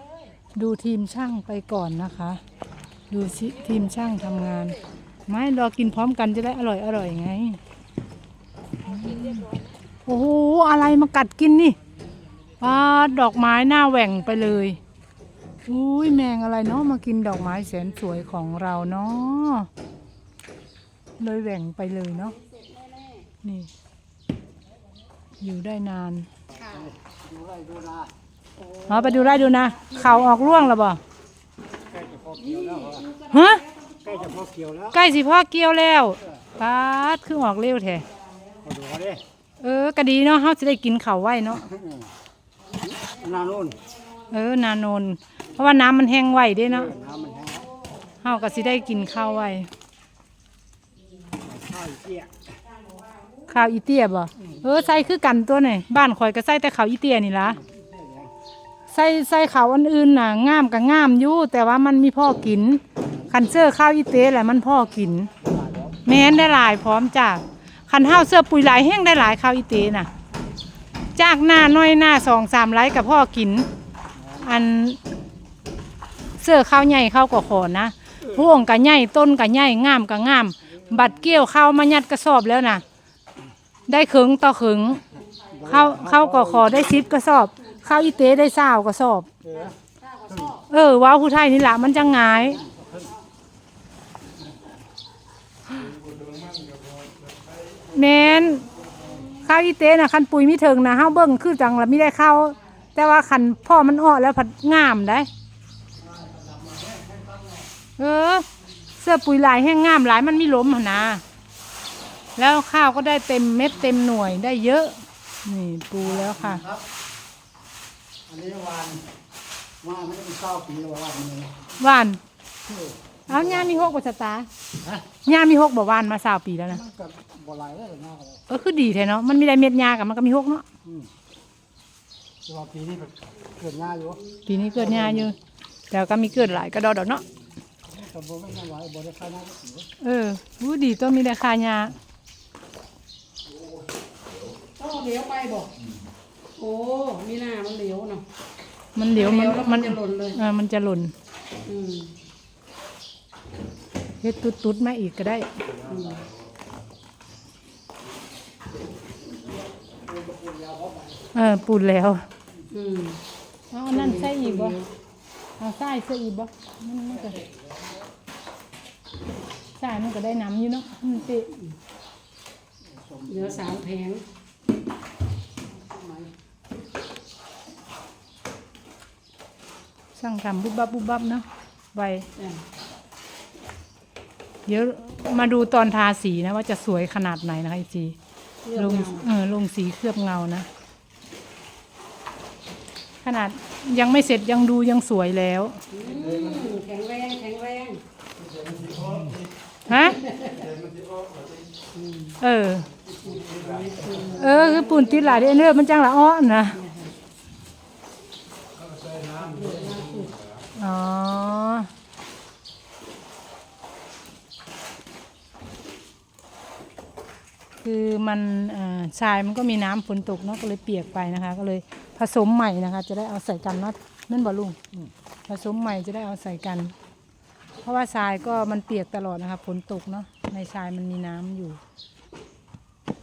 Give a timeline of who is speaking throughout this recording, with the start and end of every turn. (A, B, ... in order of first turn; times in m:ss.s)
0:00.5-0:02.4 A
0:03.1-0:07.6 A
0:08.8-0:09.5 A
0:10.0-0:11.8 A
0:12.6-0:14.8 A
0:15.6-0:19.7 A
0:21.2-0:22.4 A
0:22.3-0:23.3 B
0:23.4-0:23.7 A
0:25.4-0:26.3 A
0:26.5-0:26.9 B
0:27.4-0:28.1 C
0:28.6-0:29.4 B
0:28.8-0:31.0 A
0:31.8-0:34.5 B
0:32.1-0:32.9 C
0:33.3-0:33.6 A
0:34.2-0:34.8 C
0:34.9-0:38.1 A
0:38.2-0:38.8 B
0:38.7-0:39.2 C
0:39.6-0:41.7 A
0:42.8-0:44.2 B
0:43.3-0:43.7 C
0:44.3-0:47.0 A
0:47.0-0:48.0 B
0:47.0-0:47.6 C
0:48.2-0:49.7 A
0:51.5-0:52.3 C
0:52.7-0:53.4 B
0:53.5-0:57.6 A
0:57.9-0:58.3 C
0:58.9-1:05.3 A
1:06.0-1:10.1 A
1:11.1-1:13.7 A
1:14.2-1:15.0 A
1:16.4-1:22.8 A
1:23.9-1:25.0 A
1:25.1-1:25.7 B
1:25.6-1:29.3 A
1:29.5-1:30.6 B
1:30.7-1:32.6 A
1:32.7-1:33.2 B
1:36.0-1:37.6 C
1:37.8-1:38.7 A
1:39.4-1:45.3 A
1:46.1-1:47.6 C
1:48.0-1:51.2 A
1:52.4-1:56.7 A
1:58.3-1:59.0 C
1:59.8-2:01.6 C
2:01.7-2:02.2 A
2:03.3-2:04.5 A
2:05.1-2:07.0 A
2:07.0-2:08.3 C
2:08.5-2:10.6 A
2:12.5-2:13.1 C
2:13.6-2:14.4 B
2:13.7-2:14.0 C
2:14.4-2:15.4 A
2:15.9-2:17.2 A
2:18.0-2:19.8 C
2:20.0-2:22.0 A
2:24.8-2:25.7 B
2:26.6-2:28.2 B
2:28.9-2:31.1 A
2:29.1-2:30.4 B
2:31.6-2:32.1 B
2:34.2-2:35.6 A
2:35.8-2:36.3 B
2:40.2-2:41.0 C
2:41.3-2:42.2 A
2:42.7-2:43.2 B
2:43.7-2:44.8 A
2:43.9-2:44.9 B
2:45.6-2:47.4 A
2:49.8-2:51.6 A
2:53.2-2:54.2 B
2:55.9-2:56.3 B
3:00.1-3:02.3 A
3:02.4-3:02.6 B
3:04.6-3:08.2 A
3:08.6-3:09.3 B
3:08.8-3:10.7 A
3:13.2-3:15.8 A
3:15.9-3:18.0 B
3:18.6-3:19.3 C
3:19.9-3:20.2 A
3:19.9-3:20.7 B
3:20.8-3:21.6 C
3:21.9-3:22.4 B
3:22.4-3:22.9 A
3:23.2-3:25.6 B
3:24.3-3:26.8 A
3:26.7-3:27.1 B
3:28.8-3:29.3 C
3:29.2-3:30.4 B
3:30.7-3:31.9 A
3:37.8-3:44.8 A
3:45.5-3:46.9 A
3:47.8-3:51.8 A